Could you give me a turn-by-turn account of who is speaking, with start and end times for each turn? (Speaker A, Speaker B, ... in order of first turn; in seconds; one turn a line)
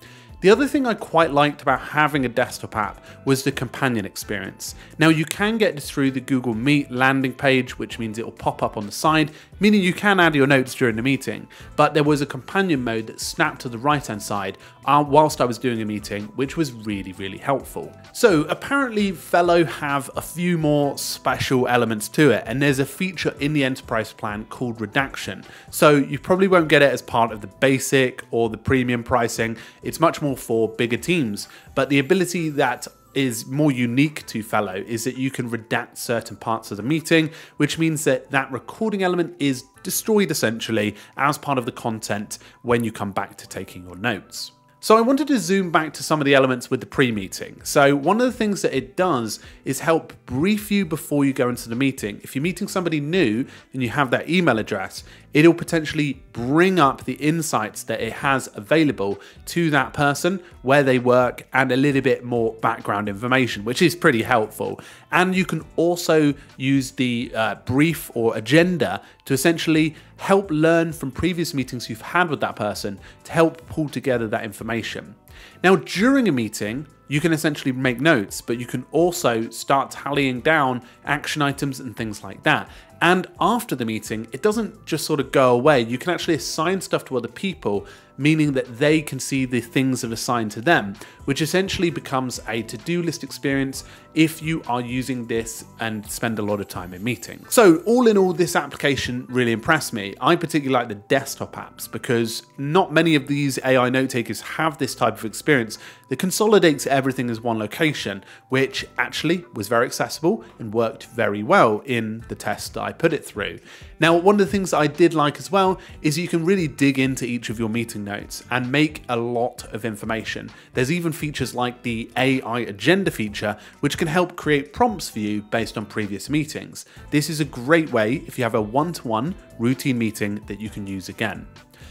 Speaker A: 0.4-131.5